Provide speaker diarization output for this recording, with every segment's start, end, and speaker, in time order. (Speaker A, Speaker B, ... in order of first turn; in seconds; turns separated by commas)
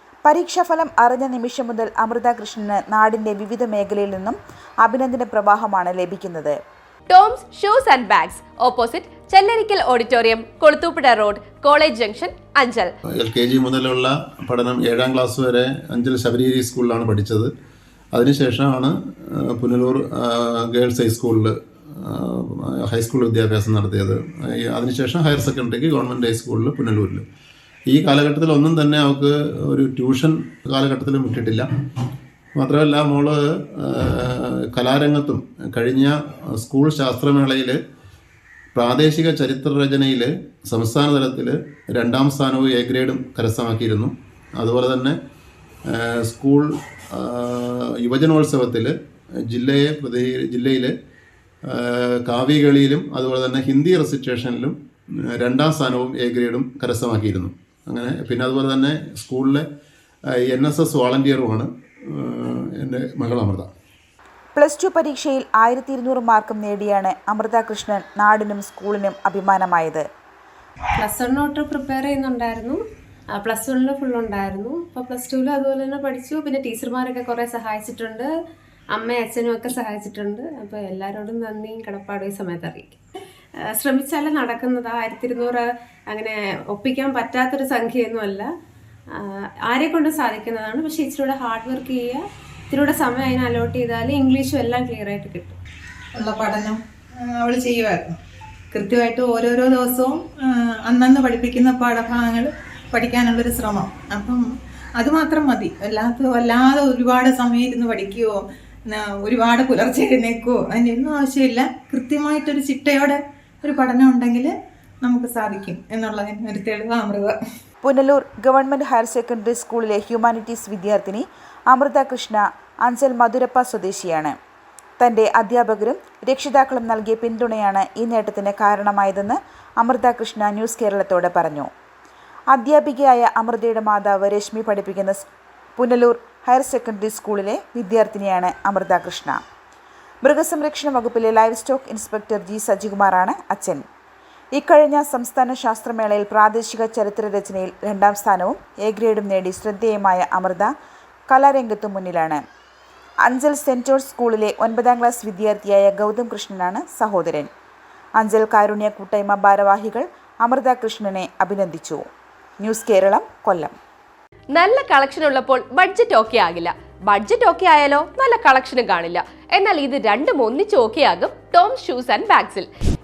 Speaker A: 0.2-6.5, Speaker B: 7.1-12.9, Speaker C: 13.2-17.5, Speaker C: 18.1-27.2, Speaker C: 27.9-31.7, Speaker C: 32.6-37.8, Speaker C: 38.7-45.1, Speaker C: 45.9-48.9, Speaker C: 49.5-50.9, Speaker C: 51.7-54.8, Speaker C: 55.4-59.6, Speaker C: 60.5-63.7, Speaker A: 64.5-70.0, Speaker D: 70.9-72.8, Speaker D: 73.3-78.3, Speaker D: 78.9-83.0, Speaker D: 83.7-88.5, Speaker D: 89.1-95.6, Speaker E: 96.1-98.2, Speaker E: 98.7-104.4, Speaker E: 105.0-114.5, Speaker E: 115.0-117.4, Speaker A: 117.8-124.3, Speaker A: 125.0-131.7, Speaker A: 132.5-135.2, Speaker A: 135.8-139.4, Speaker A: 140.2-143.8, Speaker A: 144.5-150.7, Speaker A: 151.3-152.4, Speaker A: 153.2-157.5, Speaker A: 158.2-162.0, Speaker A: 162.6-163.7, Speaker B: 164.5-172.7